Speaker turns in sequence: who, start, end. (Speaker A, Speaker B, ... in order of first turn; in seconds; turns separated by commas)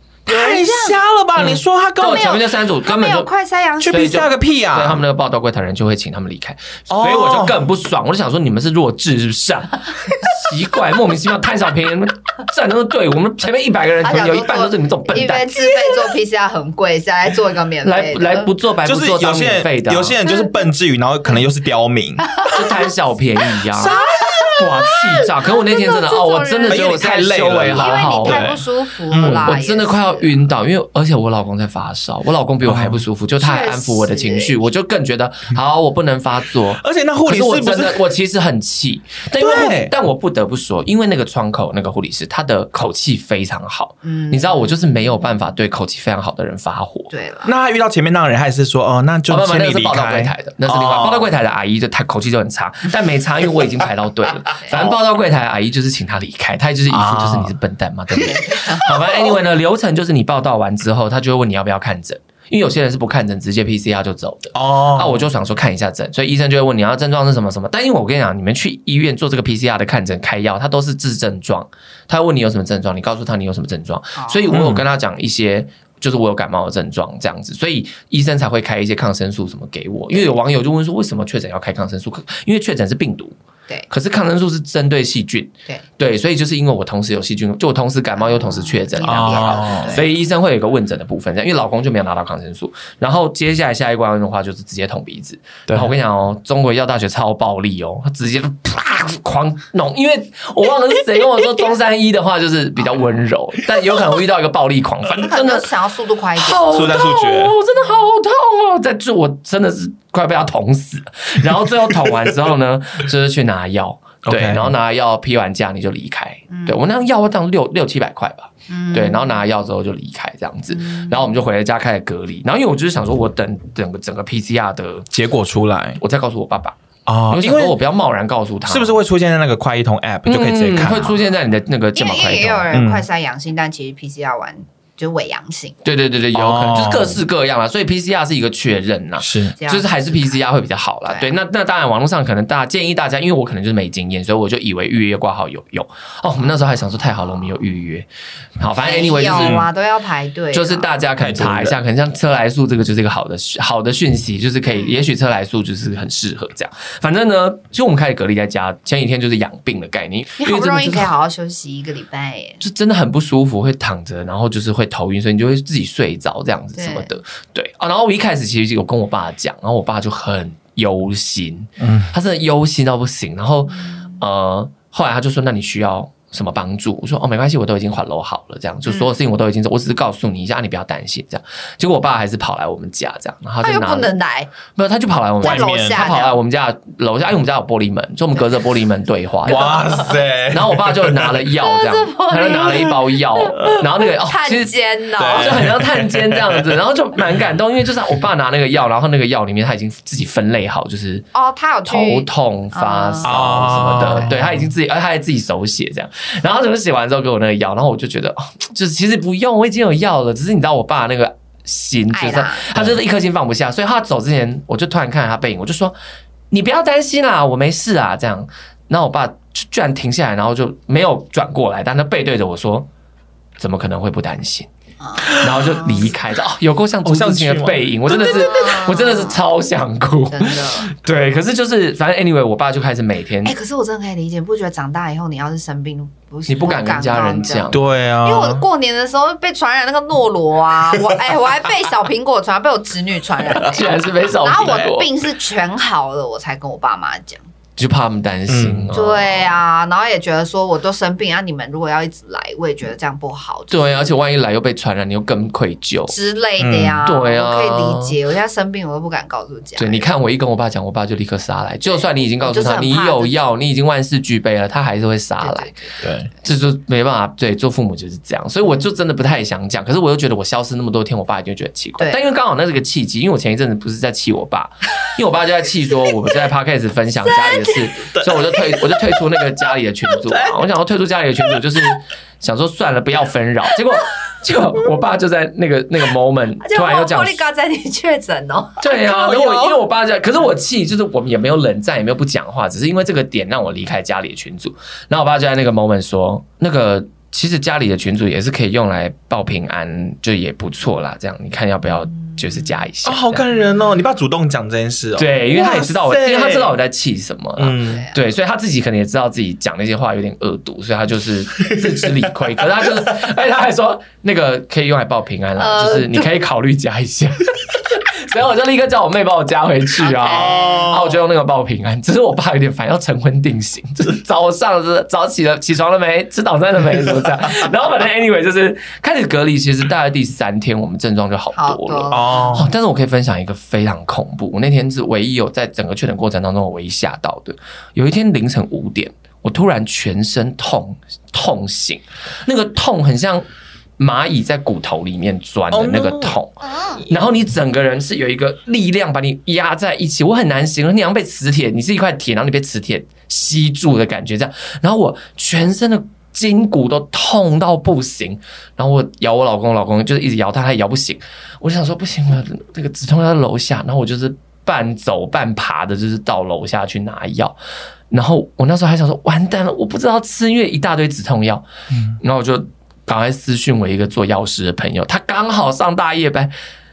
Speaker A: 0.2-2.4, Speaker B: 0.3-1.0, Speaker C: 1.4-3.3, Speaker B: 2.0-4.2, Speaker A: 3.8-5.0, Speaker C: 3.9-15.8, Speaker A: 6.9-7.6, Speaker B: 14.0-18.5, Speaker C: 17.8-20.2, Speaker A: 18.9-22.3, Speaker B: 20.2-20.5, Speaker B: 22.2-22.6, Speaker C: 22.5-24.0, Speaker A: 23.7-24.9, Speaker B: 23.8-24.6, Speaker C: 24.6-28.5, Speaker B: 25.5-27.1, Speaker A: 26.7-29.5, Speaker B: 27.7-30.4, Speaker C: 29.1-47.1, Speaker A: 32.6-33.0, Speaker B: 33.4-34.6, Speaker A: 36.7-38.0, Speaker A: 39.4-39.9, Speaker B: 44.0-44.8, Speaker B: 47.1-47.5, Speaker A: 47.5-51.3, Speaker C: 49.3-83.4, Speaker B: 54.6-54.8, Speaker A: 56.9-57.5, Speaker B: 58.2-59.4, Speaker A: 64.5-65.2, Speaker B: 74.2-74.6, Speaker A: 74.5-74.9, Speaker C: 83.9-105.7, Speaker B: 88.2-90.1, Speaker A: 89.0-90.0, Speaker B: 105.2-106.7, Speaker C: 106.4-125.1, Speaker A: 106.7-107.6, Speaker A: 114.2-114.7, Speaker B: 116.5-116.8, Speaker B: 118.7-119.4, Speaker B: 120.7-121.2, Speaker A: 125.1-126.0, Speaker C: 126.0-126.8, Speaker A: 127.1-127.8, Speaker C: 127.3-129.0, Speaker A: 128.7-131.2, Speaker C: 130.2-132.7, Speaker B: 131.9-135.8, Speaker A: 132.7-133.1, Speaker C: 135.8-148.1, Speaker A: 136.3-137.2, Speaker A: 139.2-139.5, Speaker B: 139.6-140.3, Speaker B: 141.1-141.3, Speaker C: 148.6-149.7, Speaker B: 148.8-150.9, Speaker A: 149.3-149.7, Speaker C: 150.5-161.1, Speaker A: 151.2-151.8, Speaker B: 154.7-155.0, Speaker B: 160.4-162.6, Speaker C: 162.6-184.1, Speaker B: 166.8-167.1, Speaker A: 171.8-172.1, Speaker B: 173.8-174.2, Speaker B: 178.9-179.2, Speaker B: 183.6-184.5, Speaker C: 184.7-194.8, Speaker B: 185.4-186.4, Speaker A: 185.4-186.1, Speaker A: 189.4-191.4, Speaker B: 189.5-190.2, Speaker B: 191.6-195.7, Speaker A: 195.2-196.8, Speaker C: 195.3-201.3, Speaker B: 201.3-203.4, Speaker C: 201.9-216.0, Speaker A: 203.2-204.7, Speaker B: 212.1-212.6, Speaker C: 216.5-222.9, Speaker C: 223.6-224.7, Speaker B: 225.0-226.1, Speaker C: 225.3-233.6, Speaker A: 227.0-228.5, Speaker B: 228.1-229.4, Speaker B: 230.3-230.9, Speaker B: 233.4-247.4, Speaker C: 236.5-237.8, Speaker A: 237.7-238.7, Speaker C: 243.6-245.1, Speaker C: 247.8-249.6, Speaker A: 248.5-248.9, Speaker B: 248.9-254.1, Speaker C: 253.7-256.2, Speaker B: 256.1-260.0, Speaker A: 256.6-257.0, Speaker C: 257.1-258.2, Speaker C: 259.8-265.8, Speaker B: 261.9-263.4, Speaker B: 265.4-266.0, Speaker A: 266.0-266.3, Speaker C: 266.4-287.4, Speaker B: 277.5-277.8, Speaker A: 278.1-278.8, Speaker A: 280.2-280.7, Speaker B: 286.6-289.4, Speaker C: 288.8-303.4, Speaker A: 289.0-289.8, Speaker A: 303.0-306.8, Speaker C: 305.2-343.4, Speaker A: 307.6-308.0, Speaker B: 307.9-308.2, Speaker B: 315.6-316.2, Speaker B: 320.0-321.0, Speaker A: 320.4-321.1, Speaker B: 331.5-332.7, Speaker A: 332.1-332.7, Speaker C: 344.0-367.6, Speaker A: 345.7-346.4, Speaker B: 346.7-347.0, Speaker C: 368.1-371.7, Speaker C: 372.2-376.5